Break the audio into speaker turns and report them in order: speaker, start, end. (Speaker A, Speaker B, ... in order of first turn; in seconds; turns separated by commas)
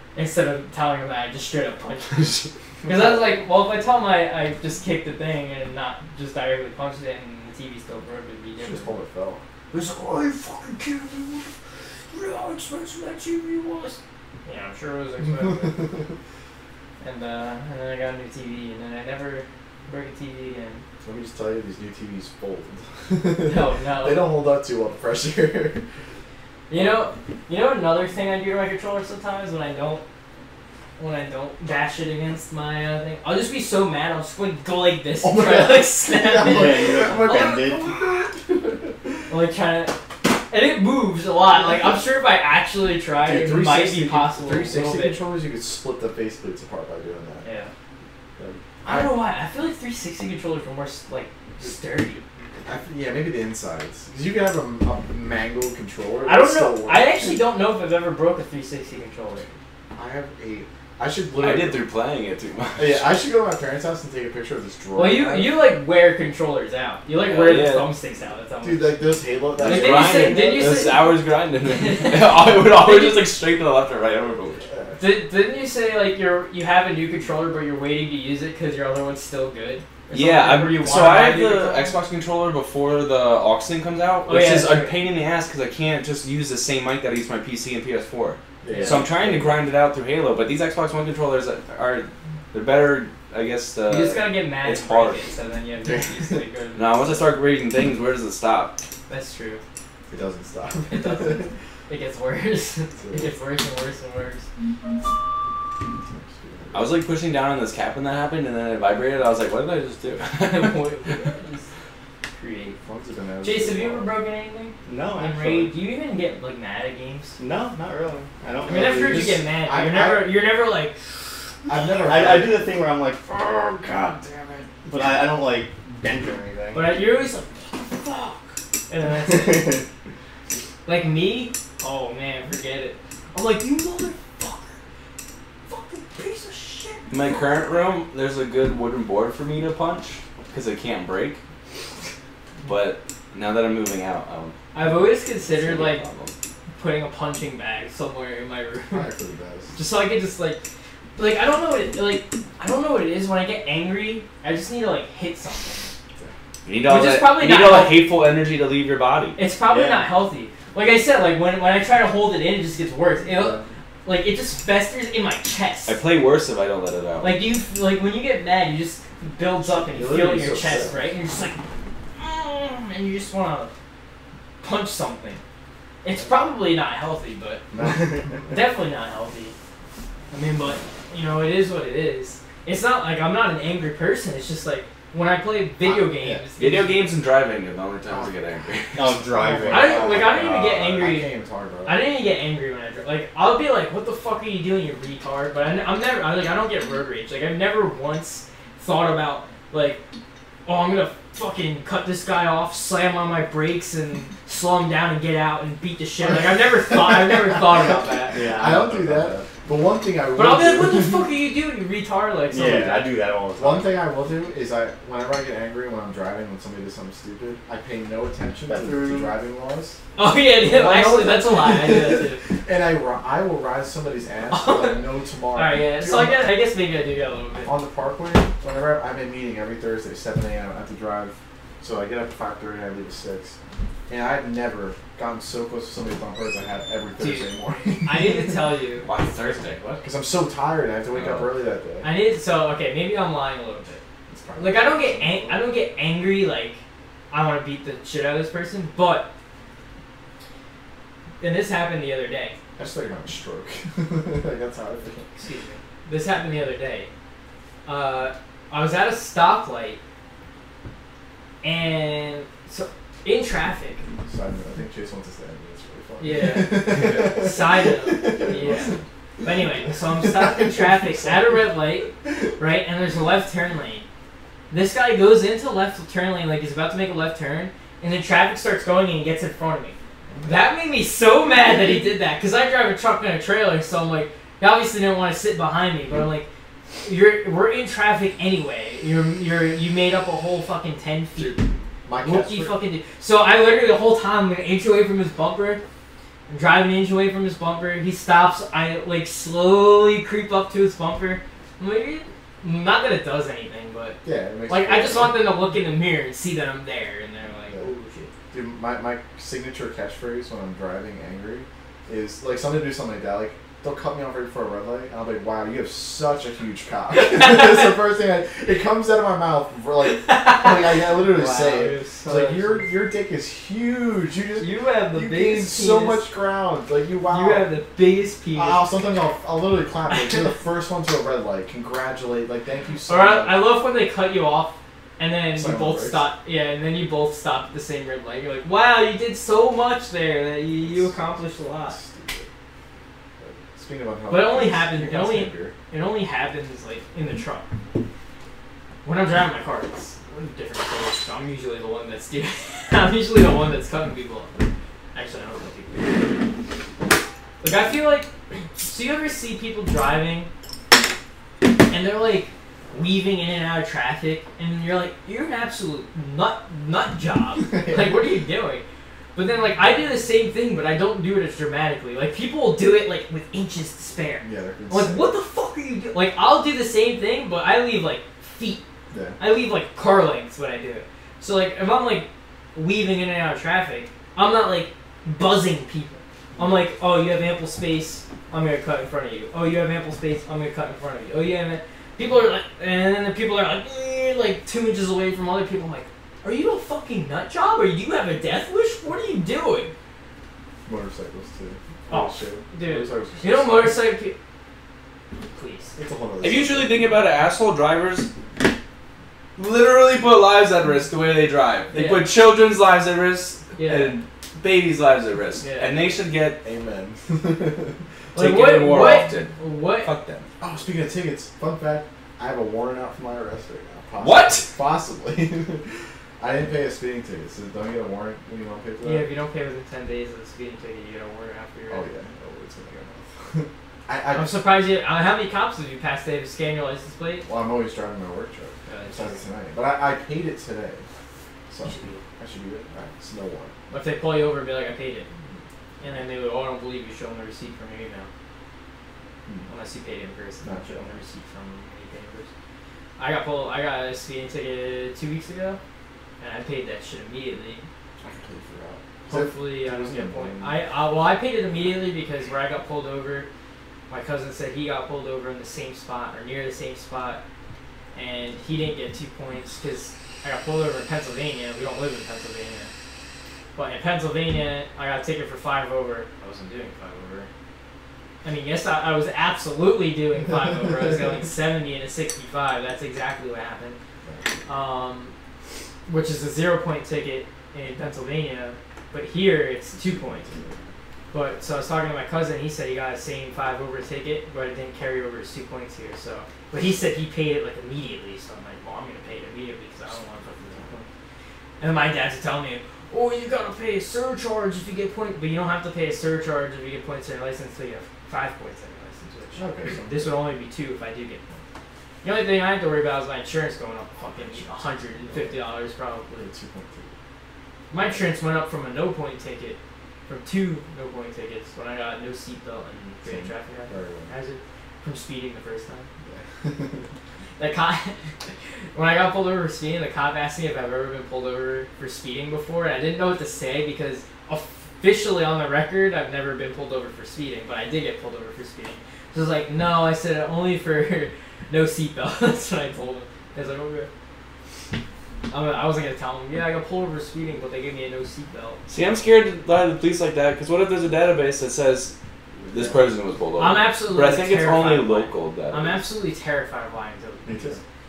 Speaker A: 0.1-8.9, Speaker B: 2.8-3.2, Speaker B: 8.6-9.4, Speaker A: 9.7-11.5, Speaker A: 12.1-15.8, Speaker A: 17.0-20.8, Speaker B: 21.0-25.8, Speaker A: 23.4-24.3, Speaker A: 26.7-30.0, Speaker B: 26.7-27.0, Speaker A: 31.0-37.1, Speaker B: 35.2-39.2, Speaker C: 36.4-37.9, Speaker A: 39.3-45.2, Speaker B: 41.5-42.0, Speaker B: 43.2-47.5, Speaker A: 47.4-47.7, Speaker B: 48.4-49.2, Speaker A: 48.8-52.2, Speaker B: 52.7-57.4, Speaker A: 56.2-59.5, Speaker B: 60.0-61.8, Speaker D: 61.4-63.1, Speaker B: 62.8-65.6, Speaker A: 64.9-69.0, Speaker D: 67.2-67.9, Speaker B: 68.6-70.8, Speaker D: 69.6-74.7, Speaker A: 69.6-71.1, Speaker A: 71.7-73.3, Speaker B: 74.7-75.0, Speaker A: 75.0-81.9, Speaker D: 80.1-95.2, Speaker A: 84.3-85.1, Speaker B: 88.6-89.5, Speaker A: 88.7-89.0, Speaker A: 93.9-97.3, Speaker D: 96.8-98.8, Speaker A: 99.1-99.6, Speaker B: 100.1-101.5, Speaker A: 100.9-104.5, Speaker B: 103.0-103.3, Speaker B: 106.0-106.9, Speaker D: 106.7-110.8, Speaker A: 110.4-111.7, Speaker A: 112.3-112.8, Speaker B: 112.8-114.1, Speaker A: 113.4-117.3, Speaker C: 114.9-115.7, Speaker C: 117.4-119.4, Speaker A: 118.7-121.0, Speaker B: 118.7-120.4, Speaker B: 121.7-122.7, Speaker C: 121.8-124.4, Speaker C: 124.9-126.9, Speaker A: 126.7-129.8, Speaker C: 129.5-129.8, Speaker A: 130.9-134.8, Speaker A: 135.7-137.4, Speaker D: 137.1-141.4, Speaker D: 142.7-144.6, Speaker A: 144.7-146.0, Speaker D: 145.4-146.3, Speaker A: 146.8-149.0, Speaker B: 148.9-149.8, Speaker A: 149.8-150.6, Speaker A: 151.2-155.9, Speaker D: 156.7-159.4, Speaker A: 156.8-158.1, Speaker A: 159.4-166.0, Speaker C: 159.7-160.1, Speaker B: 163.2-163.7, Speaker D: 165.9-167.4, Speaker A: 167.2-171.6, Speaker B: 169.6-171.0, Speaker A: 172.2-173.8, Speaker A: 174.6-175.4, Speaker A: 176.0-177.7, Speaker B: 177.7-178.6, Speaker A: 178.5-179.6, Speaker A: 180.3-187.1, Speaker B: 185.8-186.4, Speaker D: 186.6-189.2, Speaker C: 188.9-190.1, Speaker B: 189.5-192.0, Speaker A: 189.7-191.3, Speaker A: 191.8-200.0, Speaker A: 200.7-208.5, Speaker B: 206.9-207.8, Speaker C: 208.3-209.5, Speaker B: 208.3-211.3, Speaker A: 210.3-213.2, Speaker C: 212.5-213.9, Speaker B: 213.6-220.0, Speaker C: 218.7-219.3, Speaker A: 220.2-222.4, Speaker B: 220.6-226.6, Speaker A: 224.5-225.0, Speaker A: 225.5-227.7, Speaker B: 227.7-233.6, Speaker B: 234.1-238.7, Speaker A: 237.2-237.5, Speaker A: 238.1-239.1, Speaker D: 239.0-240.0, Speaker B: 240.0-242.1, Speaker D: 241.1-241.5, Speaker A: 242.0-244.0, Speaker B: 244.3-245.7, Speaker A: 244.6-249.3, Speaker A: 251.4-252.6, Speaker B: 252.8-255.3, Speaker A: 255.4-257.1, Speaker A: 257.9-260.0, Speaker A: 261.6-264.0, Speaker B: 264.3-271.6, Speaker A: 266.2-274.1, Speaker A: 274.7-286.5, Speaker B: 280.3-280.7, Speaker A: 287.0-291.6, Speaker B: 291.4-292.8, Speaker A: 292.2-295.8, Speaker A: 296.5-308.3, Speaker B: 304.2-305.5, Speaker B: 308.5-327.7, Speaker A: 320.2-322.9, Speaker A: 324.6-326.2, Speaker A: 327.3-328.8, Speaker B: 328.6-333.7, Speaker A: 333.1-342.0, Speaker B: 335.5-336.3, Speaker B: 340.8-341.1, Speaker B: 341.9-342.5, Speaker B: 343.4-345.8, Speaker A: 344.3-347.7, Speaker A: 349.0-354.5, Speaker A: 355.1-356.5, Speaker A: 357.6-360.5, Speaker A: 361.9-368.8, Speaker B: 367.7-368.3, Speaker A: 369.4-378.8, Speaker B: 374.4-375.3, Speaker B: 379.1-379.4, Speaker A: 379.4-399.9, Speaker B: 386.6-386.8, Speaker B: 400.9-404.0, Speaker A: 402.1-404.4, Speaker A: 405.4-405.9, Speaker B: 406.0-407.0, Speaker D: 406.4-408.3, Speaker D: 409.6-416.6, Speaker A: 411.9-412.3, Speaker A: 413.8-414.1, Speaker A: 415.6-415.9, Speaker B: 416.6-418.0, Speaker A: 418.4-420.1, Speaker D: 418.4-420.5, Speaker B: 420.6-429.3, Speaker D: 424.2-424.7, Speaker A: 429.0-432.0, Speaker B: 431.9-434.6, Speaker A: 434.3-437.5, Speaker B: 437.4-441.1, Speaker A: 438.9-439.4, Speaker B: 441.7-443.7, Speaker A: 441.9-442.2, Speaker A: 443.9-445.3, Speaker A: 446.0-448.3, Speaker A: 449.7-452.5, Speaker B: 450.6-451.1, Speaker A: 453.2-455.8, Speaker A: 456.4-457.8, Speaker B: 458.2-460.8, Speaker A: 459.3-463.5, Speaker A: 464.1-467.4, Speaker A: 468.1-472.9, Speaker A: 473.8-476.8, Speaker A: 478.4-484.0, Speaker B: 484.2-484.5, Speaker A: 484.7-485.3, Speaker A: 486.1-490.5, Speaker B: 489.9-490.9, Speaker A: 491.3-501.1, Speaker B: 500.6-500.9, Speaker A: 501.8-511.6, Speaker B: 509.6-510.5, Speaker A: 512.2-516.4, Speaker B: 514.3-515.7, Speaker B: 516.3-517.1, Speaker A: 517.9-526.1, Speaker B: 518.0-518.3, Speaker B: 523.2-524.3, Speaker B: 526.2-527.1, Speaker A: 527.6-528.2, Speaker A: 528.9-544.1, Speaker A: 545.5-548.8, Speaker D: 548.9-552.1, Speaker B: 552.7-553.0, Speaker D: 552.7-556.0, Speaker A: 553.6-557.7, Speaker B: 557.5-557.8